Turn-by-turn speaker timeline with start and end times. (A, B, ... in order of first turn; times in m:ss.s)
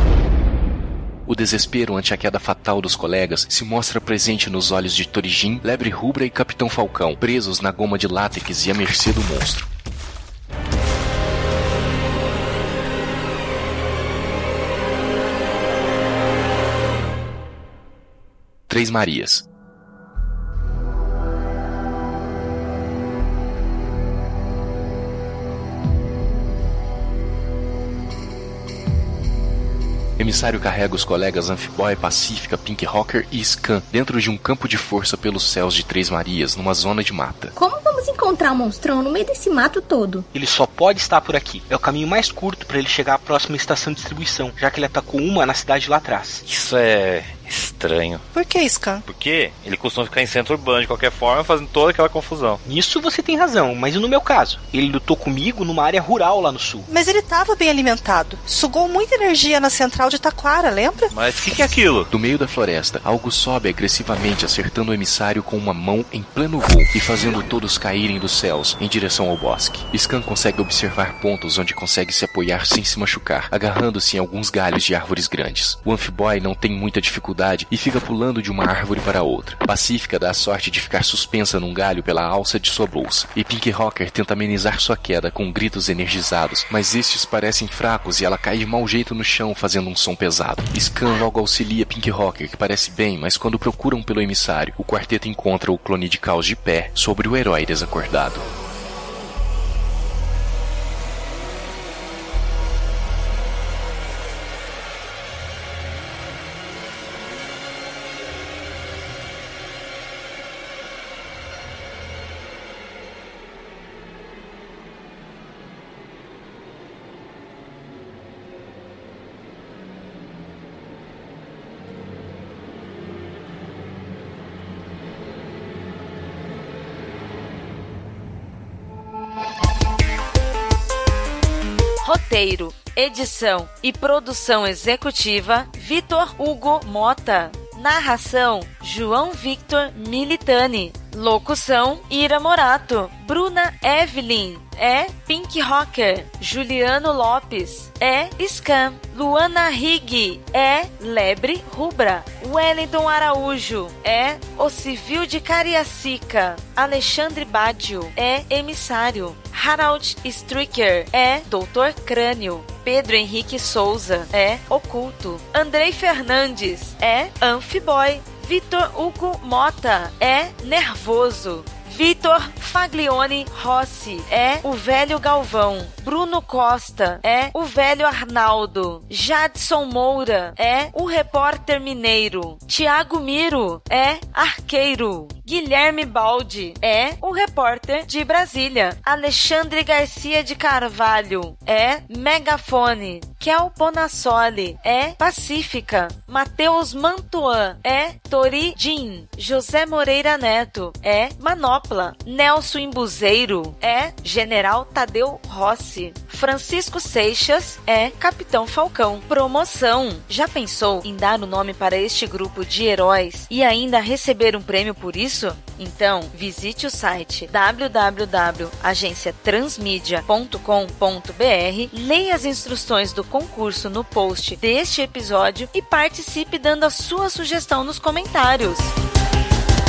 0:01.3-0:09.7 A
0:18.7-0:19.4 A
0:30.2-0:37.6 A
0:37.6-0:40.3 B
0:40.3-0:46.4 C
0:46.5-0:48.2 D
0:48.4-0:49.0 E
0:49.1-0:52.6 D
0:52.6-0:56.9 C
0:56.9-1:01.1 E
1:01.1-1:02.1 D
1:02.1-1:38.4 A
2:12.0-3:48.9 F